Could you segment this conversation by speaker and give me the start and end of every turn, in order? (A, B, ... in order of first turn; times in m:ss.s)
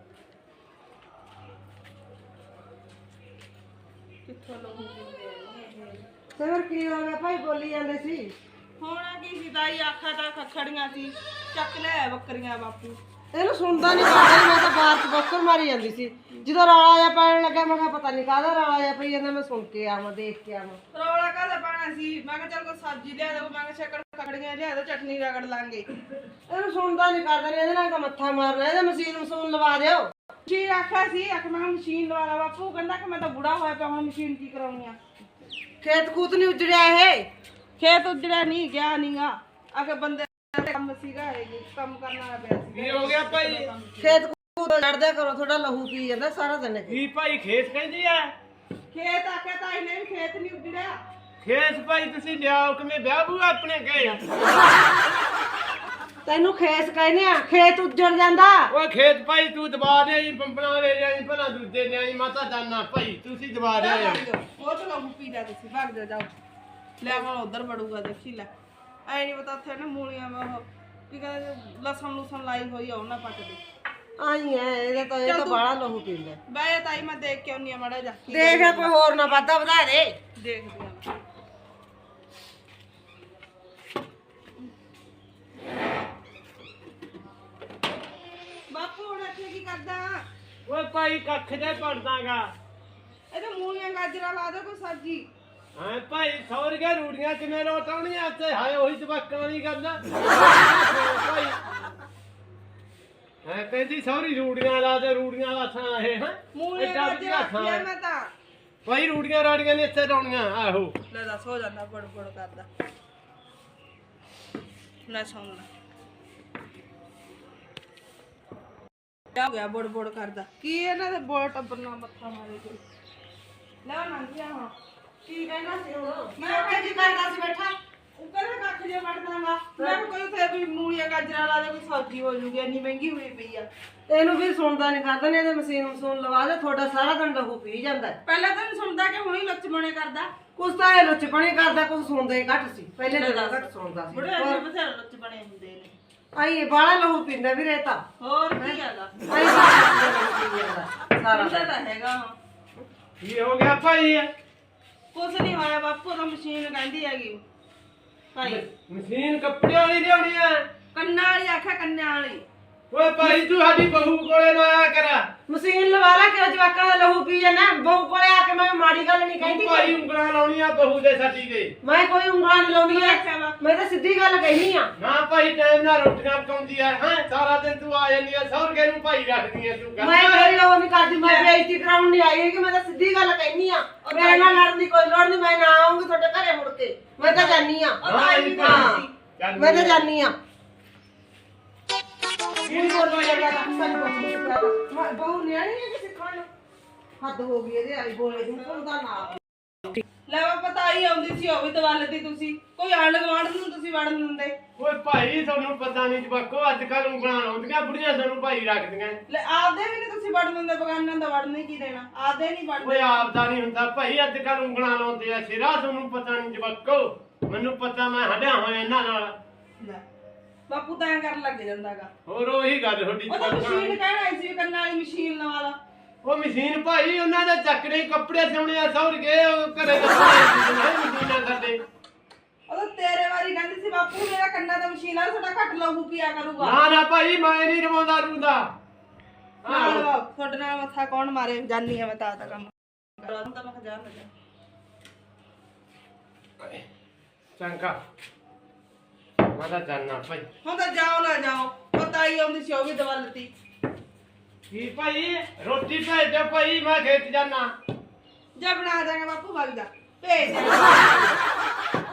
0:04.2-0:06.1 A
0:06.4-0:08.4 B
0:08.8-0:13.0 A
0:13.3-0:20.8 B
0:20.9-0:25.9 A
0:26.5-0:30.1 B
0:30.4-0:35.0 A
0:35.8-0:37.3 B
0:37.8-0:44.2 A
0:42.7-0:43.7 C
0:44.0-0:47.0 B
0:46.9-0:48.3 C
0:48.9-0:51.0 A
0:51.4-0:54.3 C
0:56.2-0:58.7 B
0:58.7-1:04.2 C
1:03.8-1:06.3 A
1:07.0-1:08.5 A
1:09.1-1:13.6 A
1:14.2-1:16.4 B
1:15.2-1:15.6 A
1:16.5-1:18.9 A
1:18.3-1:20.2 B
1:20.4-1:21.1 A
1:28.7-1:30.3 A
1:30.7-1:32.5 C
1:33.3-1:35.3 A
1:35.8-1:41.6 C
1:43.4-1:47.8 C
1:46.5-1:48.3 A
1:48.8-1:51.0 C
1:51.1-1:52.7 A
1:55.0-1:55.7 A
1:59.3-2:02.8 A
2:03.8-2:04.7 A
2:05.2-2:07.8 B
2:06.4-2:07.4 A
2:08.2-2:13.7 A
2:09.8-2:10.0 B
2:14.1-2:18.2 B
2:18.2-2:20.3 A
2:20.6-2:24.6 B
2:23.1-2:26.0 A
2:26.3-2:28.0 B
2:28.2-2:29.1 A
2:28.6-2:31.7 B
2:31.3-2:32.4 A
2:33.2-2:34.3 C
2:35.1-2:37.4 A
2:38.3-2:38.7 A
2:38.4-2:40.7 C
2:40.9-2:42.5 A
2:42.9-2:45.3 C
2:45.5-2:50.0 B
2:49.4-2:51.7 C
2:51.8-2:54.9 B
2:52.8-2:53.6 A
2:55.0-3:00.6 C
3:00.0-3:09.0 B
3:01.2-3:01.5 A
3:04.0-3:04.6 A
3:07.2-3:10.1 C
3:08.0-3:09.1 A
3:09.6-3:10.4 B
3:12.6-3:16.5 B
3:12.7-3:13.5 C
3:17.2-3:19.4 B
3:20.3-3:24.6 A
3:24.8-3:29.2 C
3:29.3-3:33.3 A
3:32.8-3:39.4 C
3:39.8-3:40.0 A
3:40.7-3:42.1 A
3:42.3-3:44.0 C
3:43.3-3:45.8 A
3:46.2-3:51.8 C
3:52.7-3:56.8 A
3:56.6-3:58.7 C
3:59.6-4:00.1 C
3:59.6-4:04.3 A
4:07.6-4:08.0 C
4:09.5-4:10.5 C
4:10.6-4:13.5 A
4:14.7-4:17.7 C
4:18.6-4:21.4 A